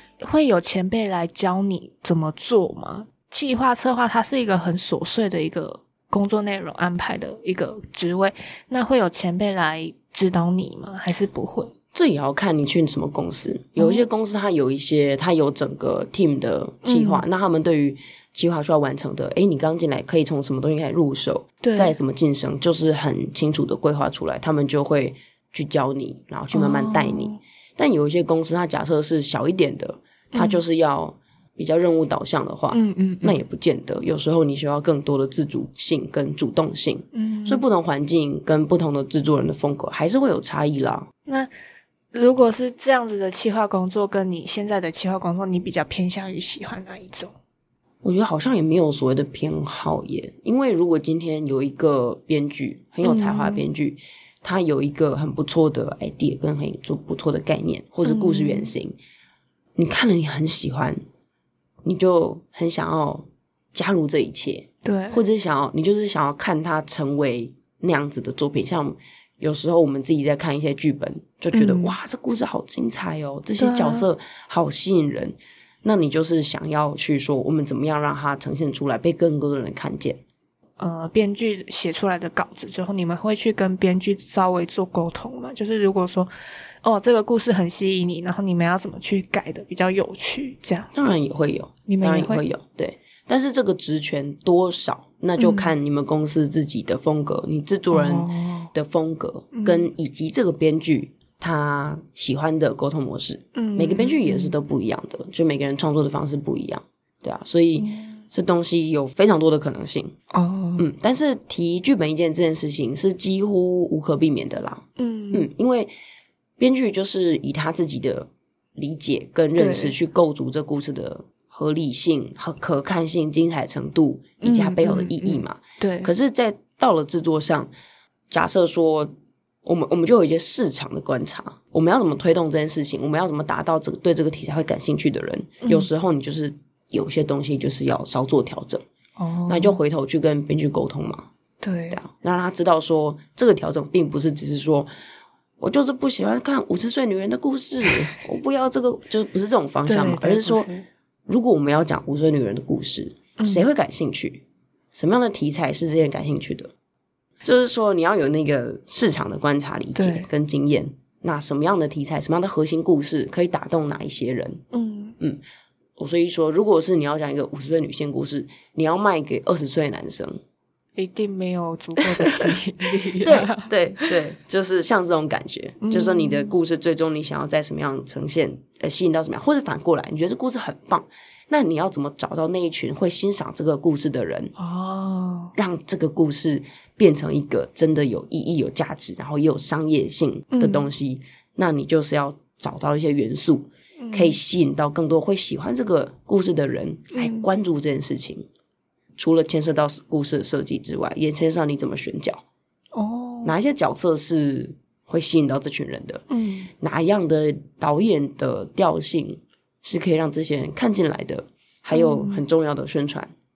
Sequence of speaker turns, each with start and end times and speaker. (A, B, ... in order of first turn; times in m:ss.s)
0:00.2-0:11.7 A
0:11.9-0:41.1 B
0:13.8-0:14.0 A
0:16.8-0:17.2 A
0:21.6-0:22.0 A
0:26.5-0:27.4 A
0:30.3-0:30.6 A
0:32.7-0:33.4 A
0:37.1-0:37.6 A
0:42.1-0:47.3 A
0:48.0-0:59.0 B
0:53.0-0:53.6 A
0:58.0-0:58.7 A
0:59.8-1:01.0 B
1:01.8-1:20.2 B
1:04.8-1:05.2 A
1:11.5-1:12.0 A
1:13.6-1:14.1 A
1:20.8-1:26.3 A
1:26.8-1:30.9 A
1:30.9-1:50.1 B
1:31.9-1:32.4 A
1:35.4-1:35.7 A
1:37.9-1:38.7 A
1:39.5-1:39.9 A
1:43.5-1:44.5 A
1:47.8-1:48.2 A
1:50.3-1:50.8 A
1:50.8-1:55.9 B
1:55.0-1:55.5 A
1:56.6-2:07.7 B
1:59.6-1:59.9 A
2:04.4-2:06.1 A
2:08.3-2:09.1 B
2:09.6-2:18.8 B
2:15.6-2:15.9 A
2:19.2-2:19.8 A
2:19.5-2:21.3 B
2:21.6-2:22.0 A
2:21.9-2:24.9 B
2:25.6-2:30.7 B
2:29.8-2:30.8 A
2:31.3-2:36.7 B
2:33.4-2:33.6 A
2:37.4-2:44.6 B
2:39.9-2:40.3 A
2:44.7-2:45.2 A
2:46.0-2:50.4 B
2:51.0-2:54.0 A
2:52.0-2:52.5 B
2:53.2-3:04.5 B
2:55.8-2:56.5 A
3:04.6-3:05.5 A
3:05.5-3:18.4 B
3:10.5-3:10.9 A
3:14.0-3:14.4 A
3:17.1-3:17.5 A
3:19.2-3:22.4 B
3:22.9-3:23.5 A
3:23.4-3:26.2 B
3:26.3-3:26.7 A
3:26.8-3:33.3 B
3:31.9-3:32.4 A